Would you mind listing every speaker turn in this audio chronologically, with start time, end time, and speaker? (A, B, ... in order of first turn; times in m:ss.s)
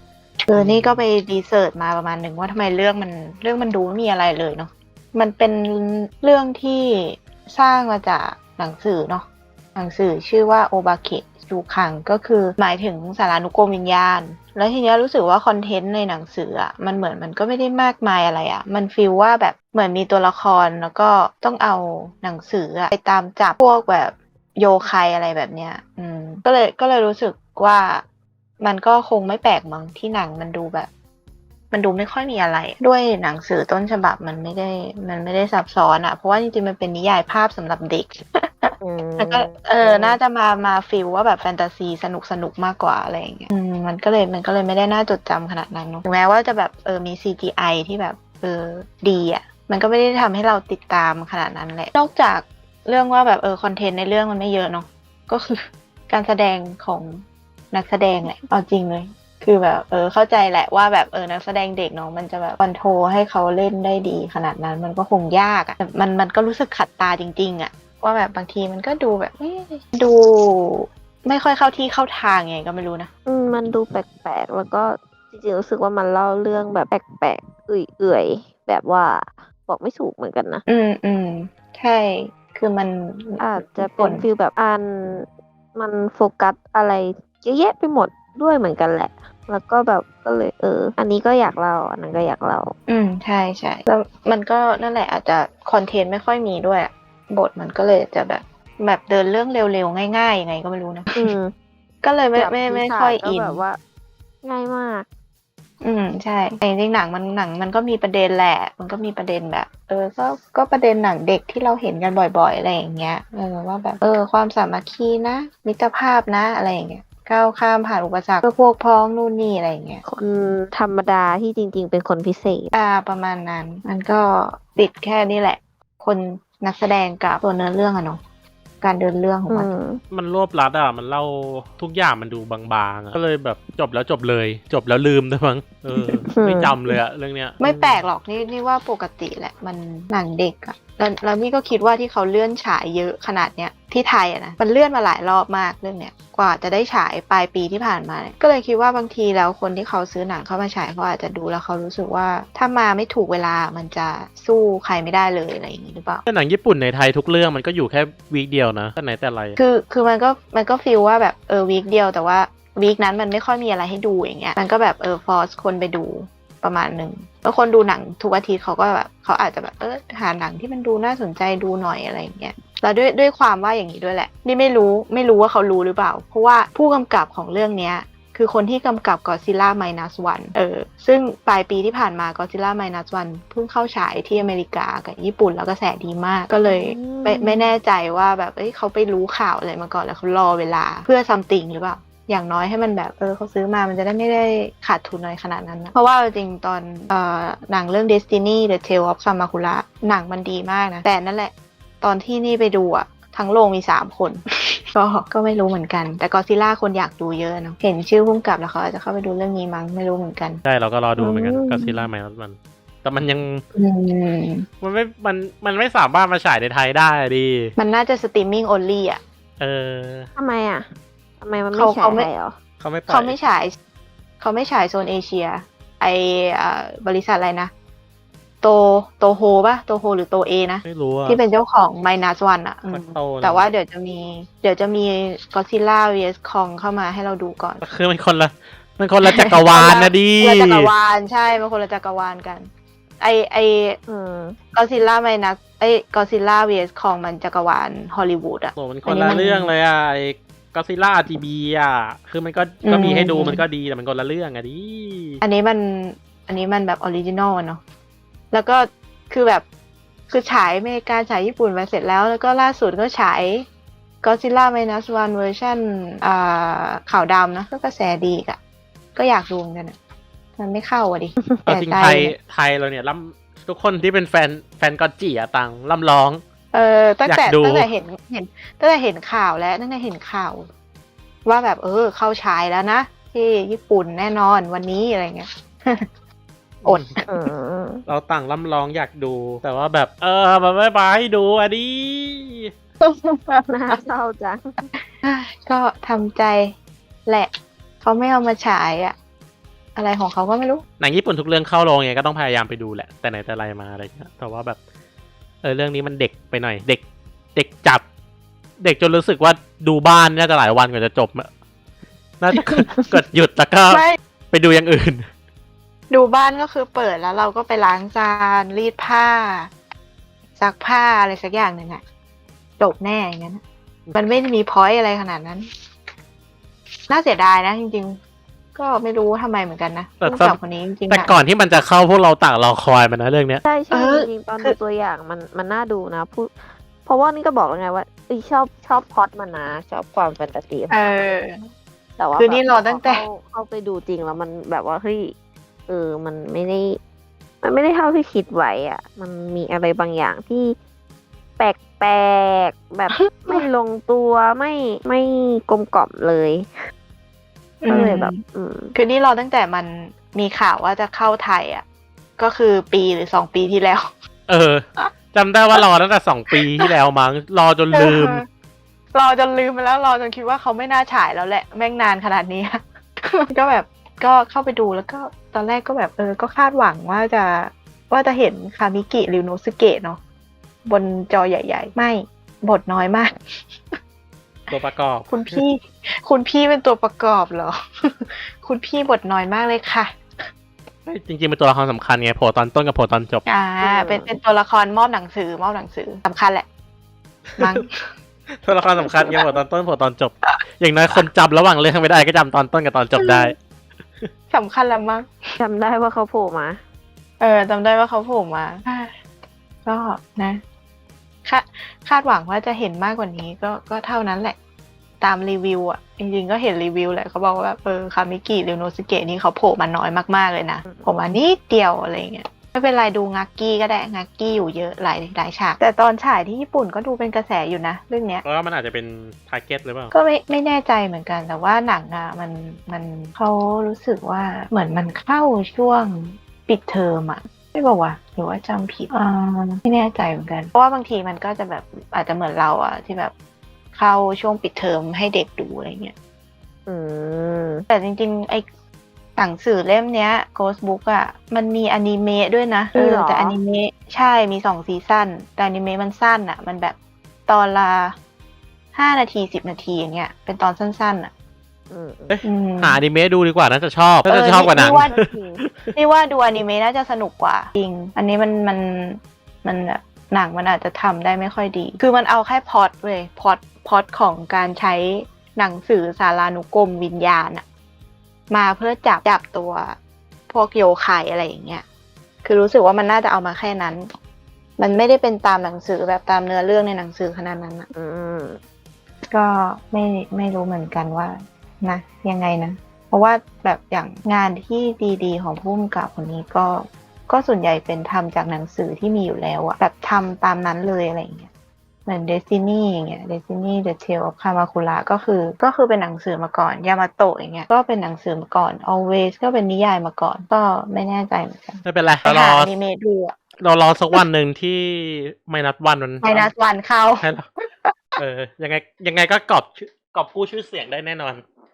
0:00.5-0:28.0 A
0:00.6-0:01.0 B
0:28.6-0:30.9 A
0:31.7-1:13.1 A
0:38.8-0:40.2 C
1:13.3-1:20.6 C
1:20.7-1:24.3 A
1:23.4-1:32.7 C
1:32.9-1:41.2 A
1:41.1-1:41.5 C
1:42.0-1:43.6 A
1:42.4-1:43.8 C
1:44.4-1:45.1 C
1:45.8-2:00.0 A
2:00.0-2:02.7 C
2:02.7-2:08.2 A
2:08.8-2:09.7 A
2:09.5-2:10.0 C
2:10.1-2:18.1 B
2:16.3-2:16.8 C
2:17.6-2:36.2 A
2:36.3-2:39.6 B
2:39.6-3:30.6 A
3:06.7-3:07.7 C
3:30.6-3:33.6 B
3:31.2-3:31.9 C
3:33.8-3:34.7 A
3:34.8-3:37.8 B
3:37.8-3:39.2 A
3:39.6-3:40.3 B
3:40.4-3:40.9 C
3:41.4-3:42.6 C
3:41.8-3:42.3 A
3:42.8-3:43.4 B
3:43.1-3:43.8 A
3:44.4-3:47.7 A
3:48.6-3:57.8 A
3:50.8-3:51.4 B
3:52.9-3:53.7 B
3:57.8-4:00.9 B
3:59.2-4:02.7 A
4:03.2-4:04.0 A
4:04.1-4:04.6 C
4:04.7-4:09.7 A
4:08.8-4:15.4 B
4:12.8-4:13.6 A
4:15.4-4:17.8 A
4:18.5-4:19.6 A
4:20.3-4:23.7 A
4:24.2-4:28.6 A
4:29.2-4:30.0 A
4:30.6-4:32.3 A
4:31.7-4:36.4 B
4:36.7-4:40.7 A
4:37.3-4:37.9 B
4:41.4-4:46.1 A
4:46.8-4:47.1 B
4:46.8-4:47.3 A
4:47.3-4:48.0 C
4:48.1-4:52.7 B
4:53.0-4:54.0 A
4:53.7-4:54.7 C
4:55.2-4:56.7 A
4:57.3-4:57.5 A
4:58.0-4:59.2 A
5:00.0-5:00.8 A
5:01.0-5:04.8 B
5:05.6-5:07.0 B
5:07.6-5:08.0 B
5:08.8-5:11.5 B
5:12.4-5:15.3 B
5:13.9-5:14.2 A
5:16.1-5:19.7 A
5:20.6-5:22.0 A
5:22.8-5:23.6 A
5:24.2-5:25.7 A
5:27.1-5:28.2 A
5:28.8-5:31.4 A
5:30.2-5:33.6 B
5:33.6-5:41.0 C
5:33.9-5:34.8 A
5:40.9-5:41.6 A
5:42.2-5:45.3 C
5:42.4-5:43.2 A
5:45.9-5:47.0 C
5:47.6-5:50.8 C
5:51.6-5:56.7 C
5:53.1-5:53.6 A
5:57.8-5:58.4 A
5:57.9-5:58.9 C
5:59.0-6:01.8 A
6:02.4-6:04.1 A
6:04.5-6:08.4 B
6:06.5-6:06.9 A
6:07.9-6:08.4 A
6:09.1-6:20.2 A
6:20.8-6:23.3 A
6:24.7-6:25.6 B
6:25.3-6:30.4 A
6:31.1-6:33.4 B
6:33.5-6:36.7 A
6:33.8-6:34.3 C
6:37.5-6:37.8 B
6:37.6-6:38.1 A
6:38.6-6:43.6 B
6:39.0-6:39.6 A
6:43.2-6:43.5 A
6:44.5-6:45.3 A
6:45.6-6:46.8 C
6:47.4-6:49.2 A
6:49.8-6:50.6 A
6:51.4-6:54.6 A
6:55.2-7:08.4 A
7:00.8-7:01.2 C
7:08.4-7:10.1 B
7:10.1-7:23.3 A
7:24.0-7:26.1 A
7:26.9-7:27.8 C
7:27.9-7:28.7 A
7:29.4-7:37.0 A
7:32.9-7:33.6 C
7:37.5-7:38.2 A
7:38.9-7:41.3 A
7:41.9-7:42.4 C
7:42.3-7:46.0 B
7:42.4-7:43.0 A
7:44.3-7:45.1 A
7:44.8-7:45.6 C
7:46.0-7:57.6 A
7:58.5-8:00.0 A
8:00.5-8:01.8 A
8:02.4-8:04.1 A
8:04.8-8:07.9 A
8:07.9-8:08.6 C
8:09.3-8:21.5 A
8:22.1-8:33.3 A
8:31.8-8:32.8 B
8:33.6-8:36.5 B
8:36.2-8:37.3 A
8:37.2-8:37.5 B
8:38.2-8:41.4 B